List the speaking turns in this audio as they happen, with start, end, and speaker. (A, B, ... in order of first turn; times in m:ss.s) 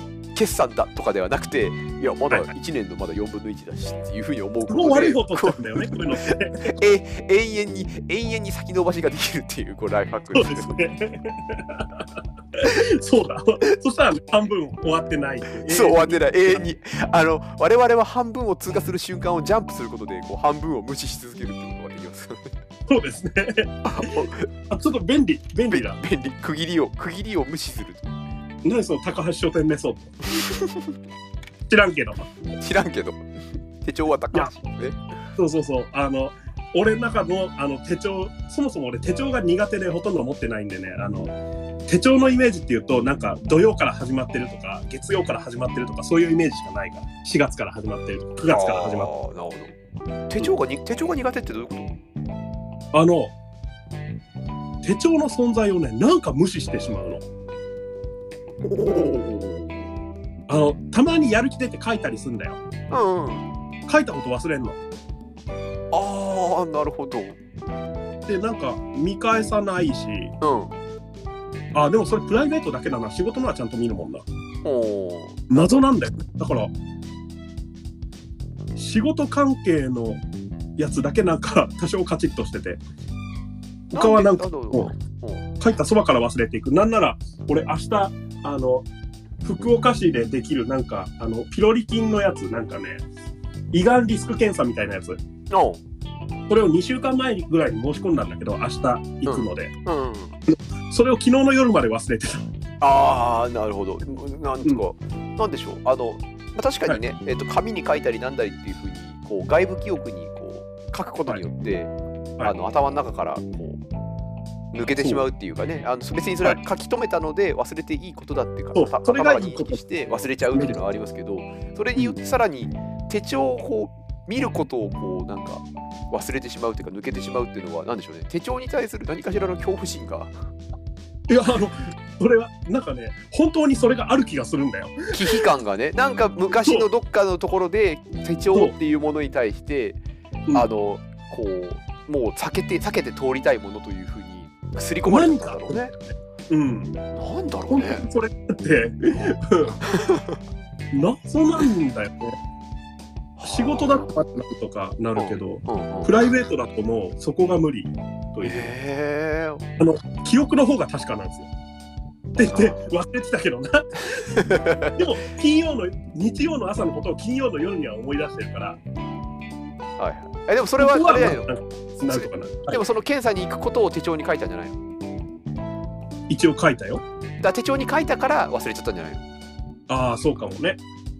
0:00.4-0:10.8 A
0:04.7-0:06.7 B
0:10.3-0:16.6 B
0:15.6-0:22.5 A
0:22.9-0:26.0 B
0:23.8-0:24.5 A
0:25.7-0:28.1 A
0:28.6-0:30.2 B
0:30.3-0:30.9 A
0:31.7-0:32.3 B
0:32.5-0:33.2 A
0:33.8-0:35.0 A
0:35.4-0:41.3 B
0:41.9-0:49.1 B
0:48.5-0:49.7 A
0:50.3-0:51.9 A
0:52.9-0:53.3 B
0:54.8-0:57.2 B
0:58.6-0:59.9 A
1:00.5-1:02.6 B
1:02.9-1:03.4 A
1:03.9-1:04.8 B
1:05.9-1:07.4 A
1:08.3-1:10.3 B
1:10.4-1:10.7 A
1:11.7-1:14.2 B
1:14.6-1:15.8 A
1:15.5-1:16.7 B
1:18.8-1:20.2 B
1:20.8-1:22.8 B
1:23.9-1:24.9 B
1:23.9-1:25.4 A
1:25.6-1:28.9 B
1:29.4-1:33.0 B
1:33.7-1:35.2 B
1:35.5-1:35.8 A
1:36.5-1:39.7 B
1:39.2-1:40.4 A
1:40.5-1:42.4 B
1:42.8-1:53.8 A
1:54.7-2:10.4 A
1:55.0-1:55.2 B
1:58.7-1:59.8 B
2:11.3-2:15.4 B
2:15.1-2:20.0 A
2:20.5-2:25.9 A
2:25.0-2:26.9 B
2:27.1-2:28.1 A
2:27.7-2:29.8 B
2:29.8-2:30.4 A
2:30.9-2:32.4 B
2:33.4-2:34.1 A
2:33.4-2:38.7 B
2:35.2-2:36.2 A
2:38.4-2:39.6 A
2:39.8-2:41.5 B
2:42.4-2:44.4 B
2:42.4-2:42.8 A
2:44.2-2:45.0 A
2:44.9-2:48.8 B
2:50.0-2:51.5 A
2:50.8-2:52.8 B
2:52.1-2:54.8 A
2:56.3-2:57.0 B
2:57.4-2:59.2 A
2:59.9-3:00.8 B